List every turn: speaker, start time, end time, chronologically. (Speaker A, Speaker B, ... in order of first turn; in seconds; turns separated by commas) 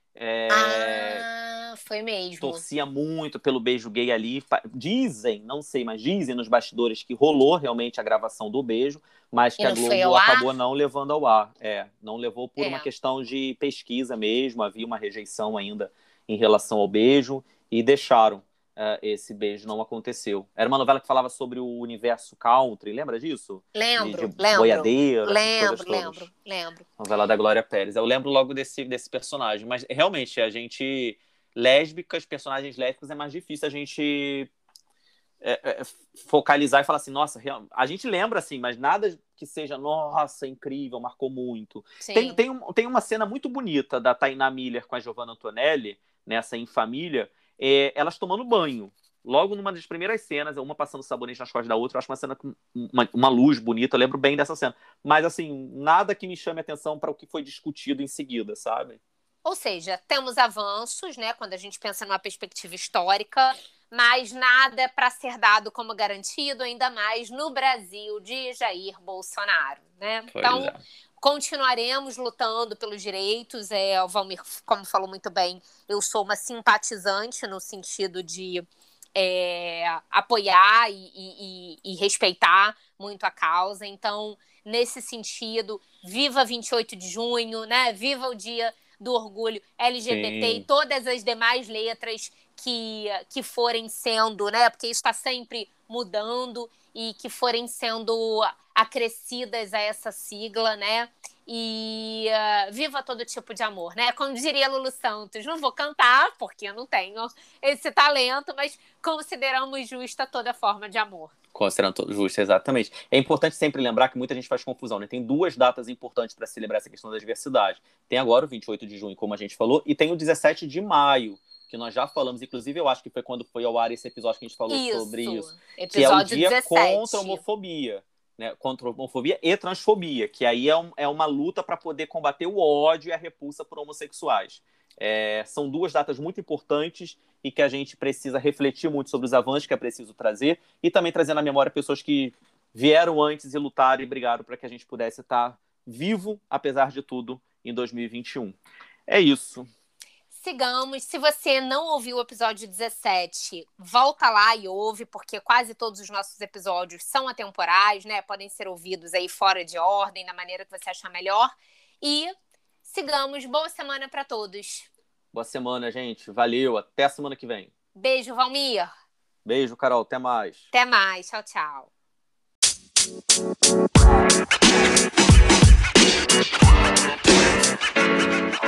Speaker A: 0.1-1.2, Speaker B: 0.5-2.6, Speaker A: 2.4-26.3, Speaker B: 9.6-10.5, Speaker B: 12.6-12.9, Speaker B: 23.7-26.9, Speaker A: 27.0-34.5, Speaker A: 35.4-59.0, Speaker B: 42.0-42.4, Speaker B: 59.4-78.6, Speaker A: 70.3-70.8, Speaker B: 79.2-111.3, Speaker A: 90.1-90.7, Speaker A: 111.5-149.7, Speaker B: 124.7-127.4, Speaker B: 150.3-162.3, Speaker B: 162.8-164.9, Speaker A: 165.3-167.7, Speaker B: 167.9-168.9, Speaker A: 169.4-170.7, Speaker B: 170.7-171.9